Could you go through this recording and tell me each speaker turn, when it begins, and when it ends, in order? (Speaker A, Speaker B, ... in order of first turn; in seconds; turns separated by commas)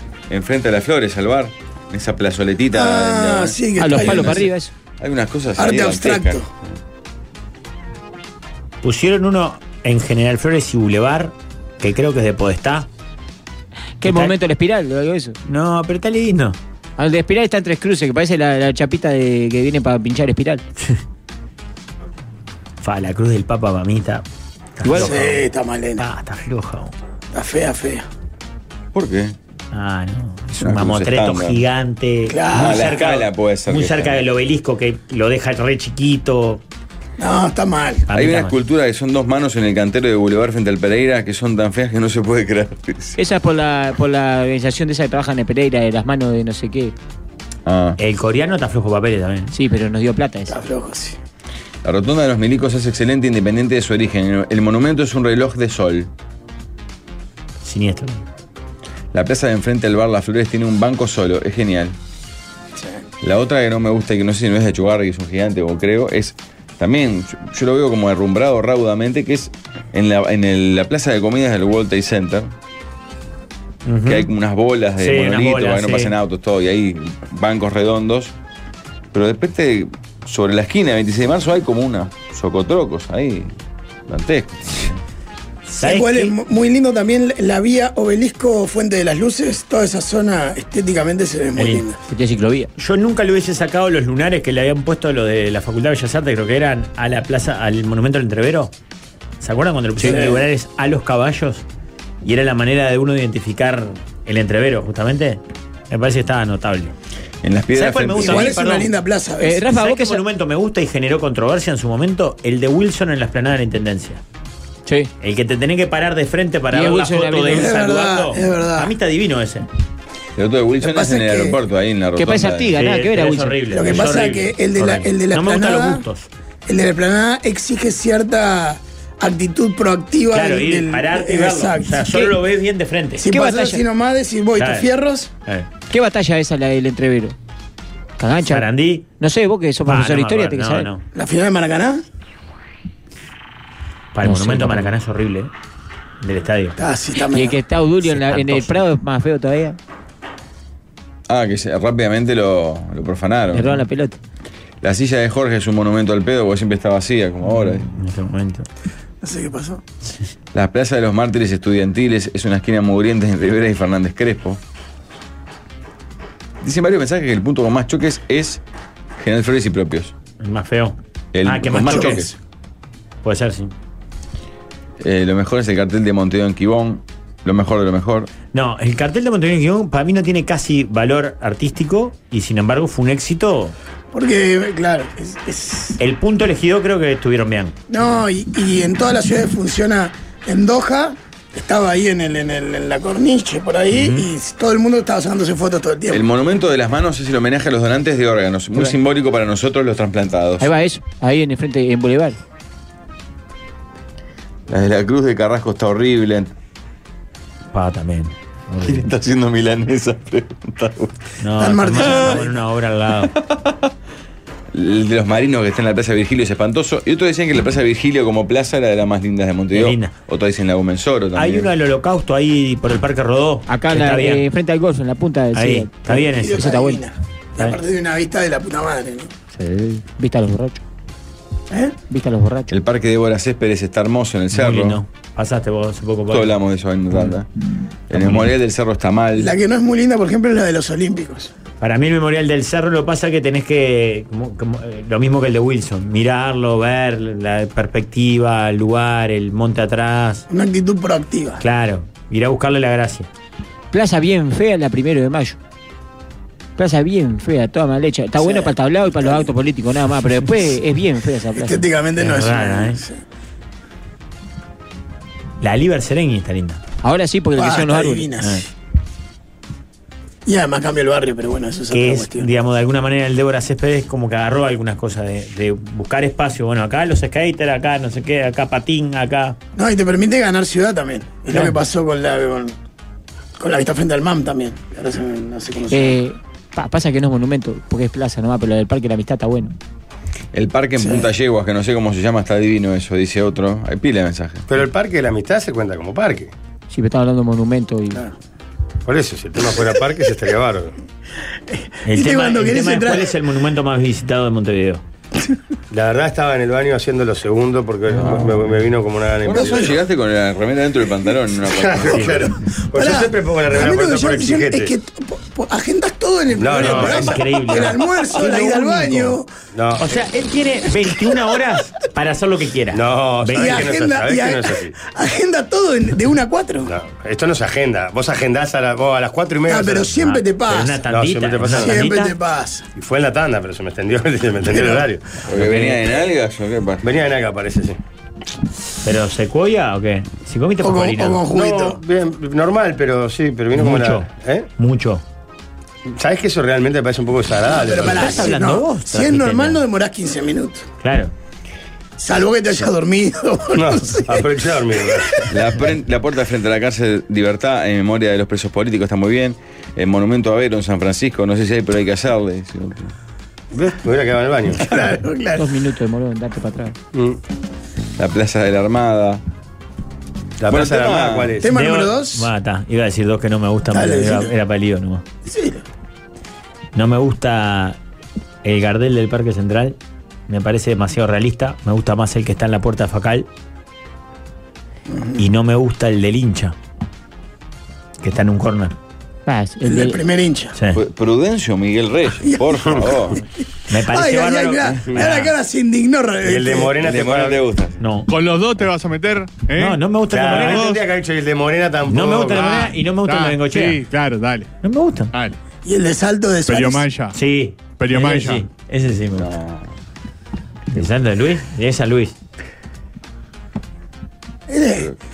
Speaker A: 0.3-4.5, Speaker B: 2.7-4.5, Speaker C: 3.8-4.7, Speaker A: 5.0-6.4, Speaker B: 5.6-6.5, Speaker D: 8.8-12.9, Speaker C: 14.0-15.3, Speaker D: 14.0-14.3, Speaker D: 15.4-16.6, Speaker C: 17.0-20.6, Speaker D: 22.8-24.2, Speaker D: 24.8-25.4, Speaker B: 24.9-26.0, Speaker D: 26.0-26.9, Speaker B: 27.3-28.1, Speaker A: 28.9-29.3, Speaker D: 29.7-36.6, Speaker A: 30.6-31.6, Speaker B: 32.3-32.9, Speaker A: 32.5-34.2, Speaker B: 37.2-38.1, Speaker D: 38.1-38.6, Speaker A: 38.1-43.1, Speaker C: 43.2-46.9, Speaker A: 47.6-48.0, Speaker D: 48.0-49.5, Speaker C: 49.5-50.6, Speaker B: 50.5-51.2, Speaker A: 51.8-56.1, Speaker D: 57.6-58.2, Speaker A: 59.1-61.9, Speaker A: 63.2-72.5, Speaker D: 73.8-74.3, Speaker A: 74.0-78.3, Speaker D: 75.0-76.1, Speaker A: 79.1-83.5, Speaker A: 84.1-85.0, Speaker D: 85.7-86.3, Speaker B: 85.8-92.0, Speaker D: 91.6-91.8, Speaker C: 92.1-92.7, Speaker D: 92.8-98.7, Speaker D: 99.4-101.6, Speaker B: 100.0-100.4, Speaker D: 102.2-106.9, Speaker A: 107.4-108.5, Speaker D: 107.7-108.9, Speaker B: 108.2-109.6, Speaker C: 109.4-110.2, Speaker D: 109.7-114.2, Speaker D: 115.2-119.7, Speaker C: 116.7-117.8, Speaker B: 117.5-118.9, Speaker A: 120.4-122.8, Speaker B: 120.8-121.6, Speaker C: 122.2-124.0, Speaker D: 122.7-126.3, Speaker B: 123.7-126.0, Speaker B: 126.7-132.4, Speaker D: 130.3-133.3, Speaker B: 133.2-135.3, Speaker C: 133.3-133.8, Speaker D: 134.6-134.9, Speaker C: 135.9-137.3, Speaker C: 138.2-140.9, Speaker D: 138.4-139.1, Speaker D: 139.8-141.0, Speaker B: 141.1-142.0, Speaker D: 144.1-145.5, Speaker C: 144.2-144.9, Speaker D: 146.2-146.8, Speaker B: 146.8-147.6, Speaker C: 147.3-149.8, Speaker D: 148.1-148.8, Speaker A: 151.3-153.8, Speaker C: 153.5-154.2, Speaker A: 154.8-157.9, Speaker D: 157.4-158.7, Speaker B: 159.2-159.8, Speaker A: 160.5-164.6, Speaker A: 166.6-168.6, Speaker A: 169.2-170.1, Speaker D: 170.4-172.2, Speaker A: 171.3-172.3, Speaker B: 171.8-172.3, Speaker D: 173.2-173.7, Speaker A: 175.0-178.3, Speaker D: 178.5-183.7, Speaker B: 184.1-186.0, Speaker D: 186.0-187.7, Speaker B: 187.9-196.2, Speaker A: 196.1-200.7, Speaker C: 200.6-202.4, Speaker A: 204.7-206.5, Speaker D: 207.7-209.1, Speaker A: 208.9-211.1, Speaker D: 211.4-213.3, Speaker B: 211.6-212.5, Speaker A: 213.2-213.7, Speaker A: 214.7-221.7, Speaker D: 219.7-220.1, Speaker D: 221.3-224.4, Speaker C: 223.7-227.0, Speaker D: 225.5-226.7, Speaker B: 226.2-229.3, Speaker C: 229.5-230.8, Speaker C: 232.1-232.7, Speaker A: 232.7-235.0, Speaker D: 234.5-236.6, Speaker A: 236.3-237.5, Speaker A: 238.1-239.5, Speaker D: 238.1-238.5, Speaker B: 239.3-241.5, Speaker D: 241.8-250.4, Speaker B: 250.5-251.6, Speaker D: 251.6-253.3, Speaker C: 253.9-255.6, Speaker C: 256.8-261.9, Speaker B: 258.4-259.5, Speaker B: 261.5-263.2, Speaker D: 262.2-263.0, Speaker D: 265.6-266.8, Speaker C: 267.0-268.3, Speaker B: 267.5-268.6, Speaker B: 270.4-272.5, Speaker D: 271.9-279.6, Speaker B: 279.8-282.7, Speaker B: 283.6-286.2, Speaker C: 285.9-289.7, Speaker A: 290.5-294.6, Speaker B: 291.0-291.2, Speaker E: 294.7-296.5, Speaker C: 296.9-298.3, Speaker E: 299.1-300.9, Speaker B: 301.7-303.3, Speaker D: 302.0-305.0, Speaker E: 305.9-310.0, Speaker A: 308.2-308.6, Speaker A: 309.4-312.4, Speaker E: 311.6-314.9, Speaker B: 312.5-319.5, Speaker E: 316.6-317.4, Speaker D: 316.8-319.4, Speaker E: 319.7-320.1, Speaker D: 320.0-323.9, Speaker E: 322.9-324.9, Speaker B: 323.5-326.9, Speaker E: 326.9-330.2, Speaker B: 329.6-331.0, Speaker D: 330.2-332.3, Speaker E: 331.1-332.1, Speaker B: 331.6-332.8, Speaker E: 332.9-335.3, Speaker B: 334.7-335.1, Speaker D: 335.4-336.1, Speaker A: 335.5-337.0, Speaker E: 337.0-338.0, Speaker D: 339.0-341.5, Speaker B: 340.8-342.0, Speaker E: 341.5-344.7, Speaker D: 343.7-345.2, Speaker E: 346.1-348.5, Speaker B: 347.7-350.9, Speaker D: 347.9-349.8, Speaker D: 351.0-351.3, Speaker B: 352.2-355.5, Speaker E: 353.7-355.4, Speaker A: 355.5-363.1, Speaker E: 363.7-364.9, Speaker B: 364.8-365.7, Speaker C: 365.6-367.0, Speaker E: 367.1-367.4, Speaker A: 368.2-369.4, Speaker E: 370.6-371.6, Speaker A: 370.7-371.5, Speaker B: 371.6-372.5, Speaker D: 371.7-375.2, Speaker B: 373.9-374.5, Speaker B: 375.4-375.8, Speaker D: 376.9-378.0, Speaker D: 378.6-379.9, Speaker D: 380.5-383.5, Speaker B: 385.1-385.4, Speaker D: 385.4-386.8, Speaker D: 388.2-388.9, Speaker C: 389.4-390.2, Speaker B: 389.8-390.7, Speaker A: 390.9-393.4, Speaker B: 392.4-393.4, Speaker D: 393.9-395.5, Speaker B: 393.9-396.9, Speaker E: 396.4-397.6, Speaker A: 397.0-398.0, Speaker D: 398.0-398.3, Speaker F: 398.3-401.0, Speaker D: 399.7-400.9, Speaker E: 400.3-402.9, Speaker D: 402.1-404.0, Speaker F: 402.5-404.7, Speaker D: 404.8-405.3, Speaker B: 405.8-407.1, Speaker F: 406.7-407.4, Speaker D: 407.3-409.5, Speaker F: 408.0-408.7, Speaker A: 409.4-409.9, Speaker D: 410.9-412.3, Speaker B: 414.7-415.1